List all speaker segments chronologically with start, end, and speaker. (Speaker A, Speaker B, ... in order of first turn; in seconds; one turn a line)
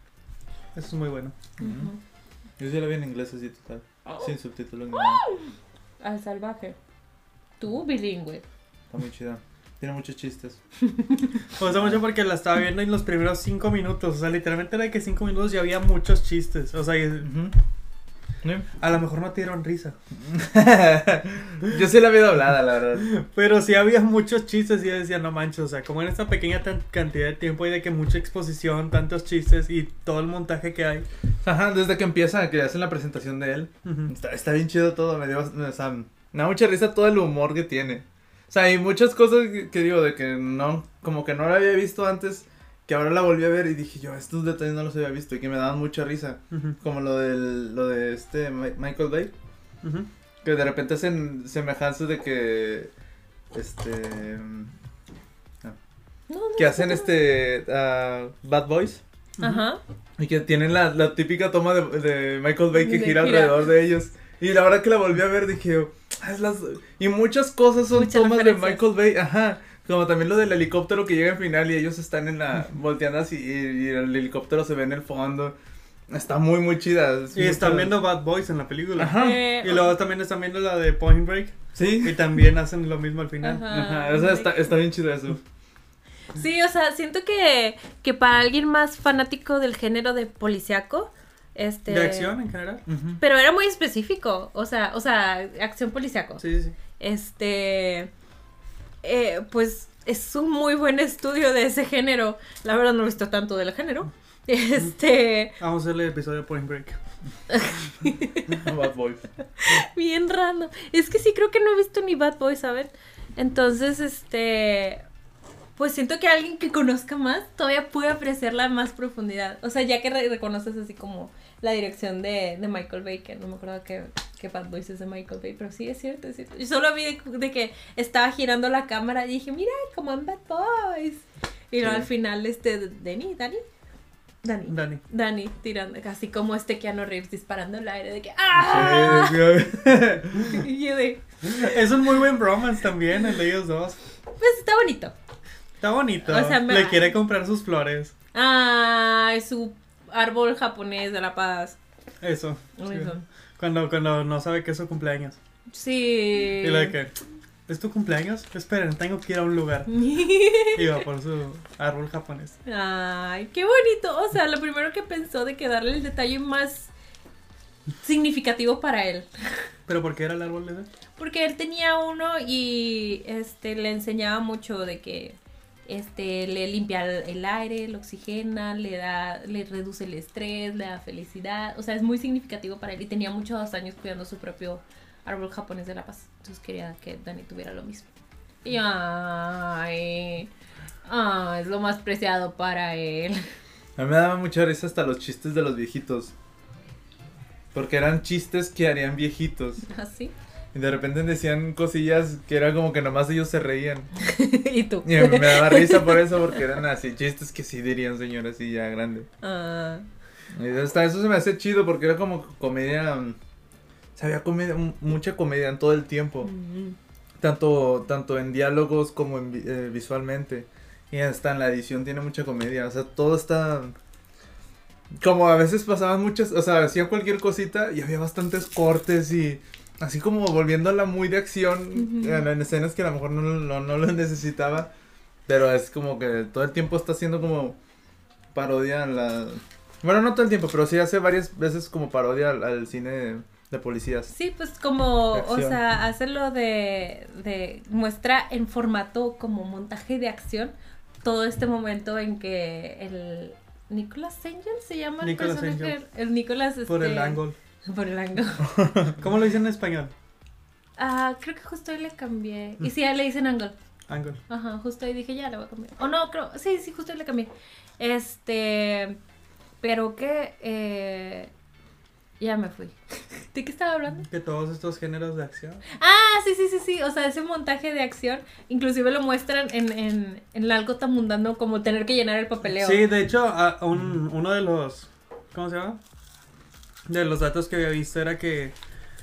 Speaker A: 0.7-1.4
Speaker B: 1.6-2.0
Speaker C: 1.6-1.9
Speaker C: 2.6-5.2
Speaker B: 4.0-4.3
Speaker B: 4.9-6.8
Speaker B: 7.6-8.4
Speaker C: 8.9-10.6
Speaker B: 10.9-11.3
Speaker A: 11.6-17.3
Speaker C: 11.6-12.0
Speaker C: 17.2-17.5
Speaker C: 18.4-18.7
Speaker A: 18.8-19.9
Speaker C: 20.2-23.1
Speaker A: 23.0-31.1
Speaker C: 31.4-49.3
Speaker A: 33.8-34.1
Speaker A: 46.5-46.8
Speaker A: 49.8-50.1
Speaker C: 50.4-52.9
Speaker C: 53.5-54.7
Speaker B: 56.3-57.1
Speaker C: 56.6-59.0
Speaker B: 59.4-59.8
Speaker C: 60.2-75.5
Speaker B: 62.7-63.7
Speaker B: 67.9-68.8
Speaker C: 76.1-77.9
Speaker A: 77.3-83.7
Speaker C: 79.0-79.4
Speaker B: 79.1-79.9
Speaker C: 81.7-82.4
Speaker B: 83.4-84.7
Speaker C: 83.7-85.4
Speaker B: 86.3-92.3
Speaker A: 91.9-92.8
Speaker C: 92.9-93.2
Speaker B: 93.2-96.4
Speaker A: 96.4-96.7
Speaker B: 97.0-98.1
Speaker B: 99.0-105.6
Speaker A: 105.6-107.0
Speaker B: 107.5-108.6
Speaker C: 108.6-109.3
Speaker B: 109.6-115.0
Speaker B: 115.8-133.6
Speaker C: 131.8-132.1
Speaker B: 134.4-139.6
Speaker A: 134.7-135.0
Speaker C: 138.5-140.7
Speaker B: 140.5-141.9
Speaker A: 141.4-144.0
Speaker B: 144.4-145.1
Speaker A: 145.8-148.1
Speaker B: 146.2-147.1
Speaker B: 148.3-151.8
Speaker A: 152.2-155.4
Speaker B: 152.8-153.2
Speaker B: 155.7-156.9
Speaker A: 156.6-157.1
Speaker A: 157.7-159.9
Speaker B: 159.9-161.0
Speaker A: 160.7-162.6
Speaker B: 162.7-166.9
Speaker B: 168.0-169.3
Speaker A: 169.9-170.9
Speaker B: 171.2-175.3
Speaker B: 175.9-188.1
Speaker B: 188.6-190.5
Speaker B: 191.1-193.4
Speaker C: 194.0-196.3
Speaker C: 197.7-199.8
Speaker B: 199.9-200.3
Speaker C: 200.7-204.1
Speaker B: 204.2-206.6
Speaker C: 205.0-209.3
Speaker B: 209.4-210.1
Speaker C: 210.5-213.4
Speaker C: 214.2-216.5
Speaker B: 216.4-217.0
Speaker C: 217.4-223.9
Speaker C: 225.2-234.9
Speaker B: 231.9-232.4
Speaker C: 235.5-237.8
Speaker C: 238.5-244.3
Speaker B: 244.3-258.8
Speaker C: 245.3-245.8
Speaker A: 255.2-255.9
Speaker A: 256.9-257.6
Speaker C: 258.6-259.1
Speaker A: 259.2-260.1
Speaker B: 261.0-263.7
Speaker A: 264.1-264.4
Speaker B: 264.5-269.2
Speaker B: 269.8-271.5
Speaker B: 272.4-272.9
Speaker B: 273.5-274.3
Speaker A: 274.3-275.8
Speaker B: 275.9-283.1
Speaker A: 282.7-286.0
Speaker A: 287.1-288.7